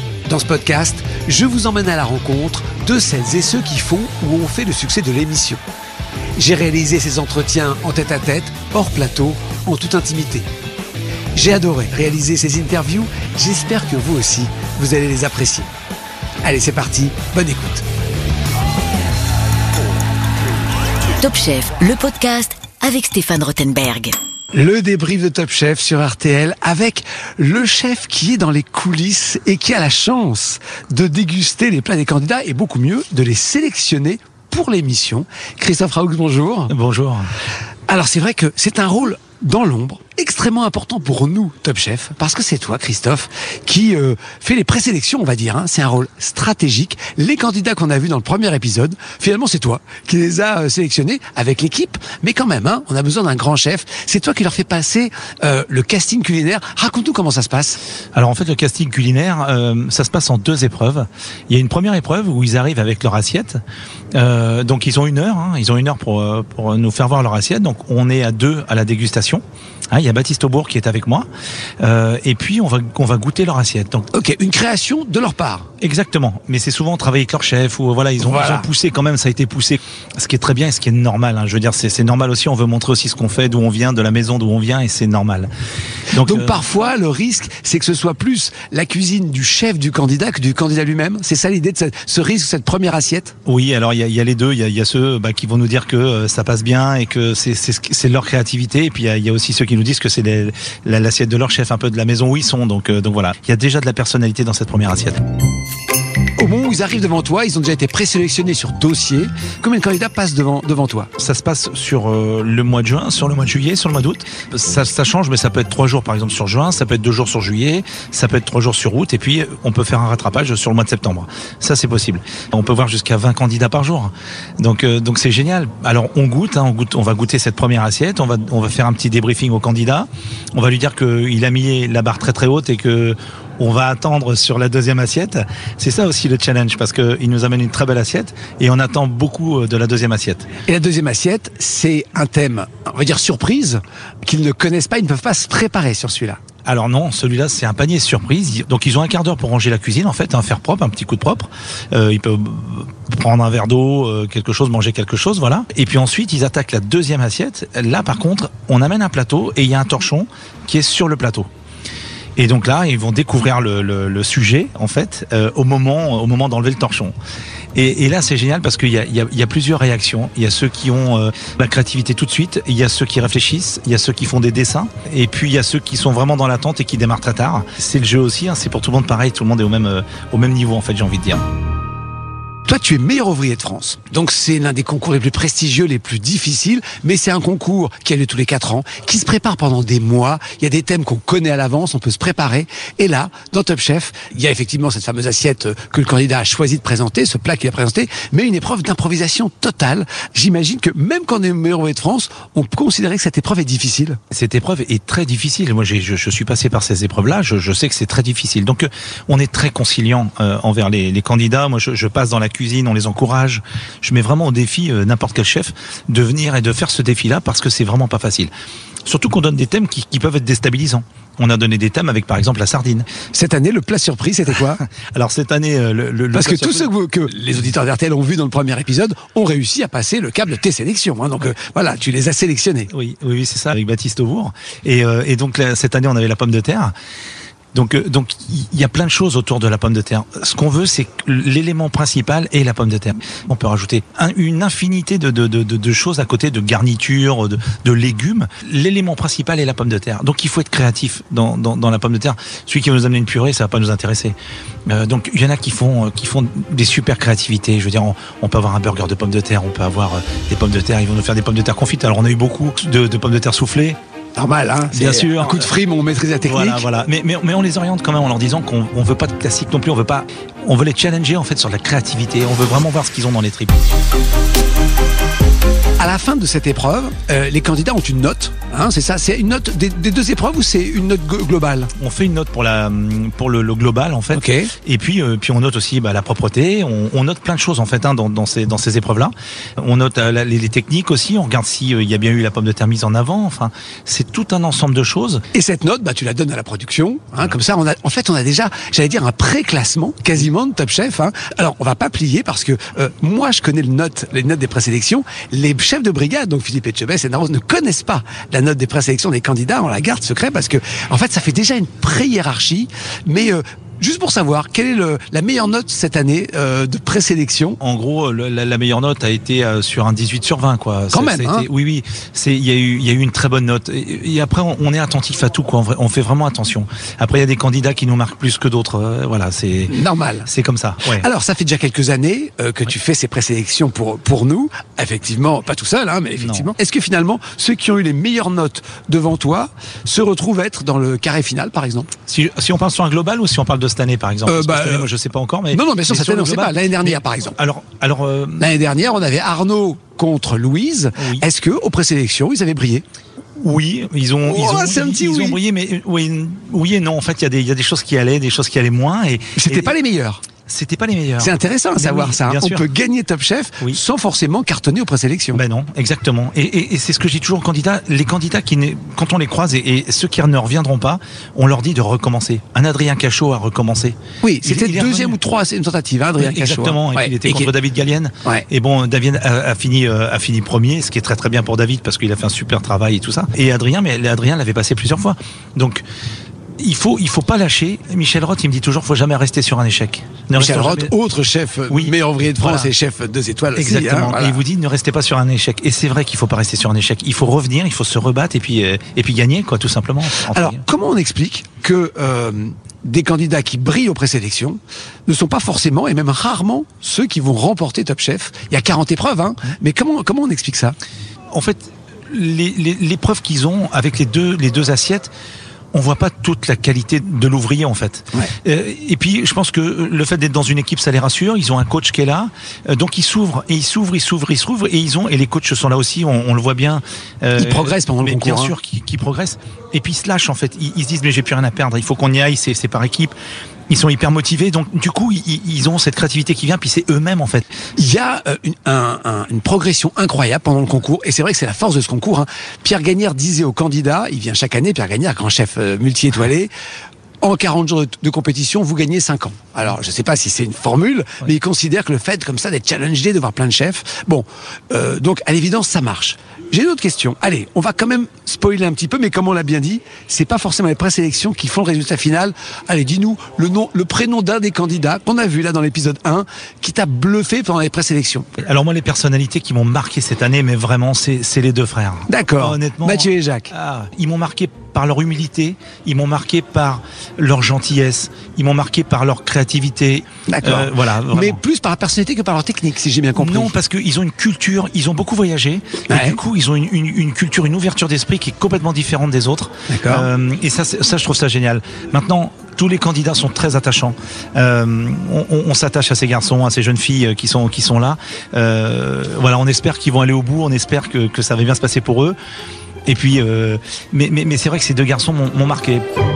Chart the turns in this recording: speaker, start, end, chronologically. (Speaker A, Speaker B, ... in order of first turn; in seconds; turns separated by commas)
Speaker A: 0.3-5.6, Speaker A: 6.4-10.5, Speaker A: 11.3-15.7, Speaker A: 16.4-17.8, Speaker B: 21.2-24.1, Speaker A: 24.5-36.7, Speaker C: 36.7-37.3, Speaker A: 37.9-57.8, Speaker C: 58.1-63.6, Speaker C: 64.1-71.3, Speaker C: 71.8-74.0, Speaker A: 74.1-75.7, Speaker C: 75.8-85.5, Speaker A: 78.2-78.7, Speaker C: 86.1-86.6, Speaker A: 86.1-93.3, Speaker C: 93.5-105.2, Speaker A: 106.4-111.1, Speaker C: 111.2-140.4, Speaker A: 140.7-146.4, Speaker C: 146.6-161.4, Speaker C: 162.4-167.1, Speaker C: 167.7-181.4, Speaker A: 182.7-204.2, Speaker C: 204.3-218.5, Speaker C: 219.1-223.0, Speaker A: 223.3-224.8, Speaker C: 224.8-226.9, Speaker A: 226.3-232.9, Speaker C: 232.9-236.9, Speaker C: 237.7-254.3, Speaker C: 254.9-264.0, Speaker A: 264.4-266.8, Speaker C: 264.9-265.7, Speaker C: 266.4-273.8, Speaker A: 276.0-281.9, Speaker C: 282.0-295.4, Speaker A: 284.3-284.7, Speaker A: 295.5-317.8, Speaker C: 317.8-329.9, Speaker A: 321.1-321.7, Speaker A: 329.9-330.5, Speaker C: 330.5-331.2, Speaker A: 331.0-342.1, Speaker C: 336.4-336.7, Speaker C: 342.3-348.7, Speaker A: 344.4-345.1, Speaker A: 345.7-347.6, Speaker A: 348.6-353.0, Speaker C: 351.2-351.4, Speaker C: 353.6-359.9, Speaker A: 354.4-355.6, Speaker A: 359.6-360.4, Speaker C: 360.7-362.8, Speaker A: 361.4-365.6, Speaker C: 365.5-375.4, Speaker A: 374.4-377.7, Speaker C: 376.4-386.0, Speaker C: 386.8-391.1, Speaker A: 390.5-394.6, Speaker C: 391.9-392.9, Speaker C: 393.7-400.8, Speaker A: 400.4-410.9, Speaker C: 411.5-415.3, Speaker C: 415.9-433.3, Speaker A: 427.6-428.7, Speaker C: 433.9-437.6, Speaker A: 438.0-446.7, Speaker A: 447.4-468.5, Speaker C: 468.6-481.6, Speaker A: 472.3-473.7, Speaker A: 480.5-483.8, Speaker C: 483.4-502.3, Speaker A: 486.1-486.4, Speaker A: 489.9-490.3, Speaker C: 503.1-506.0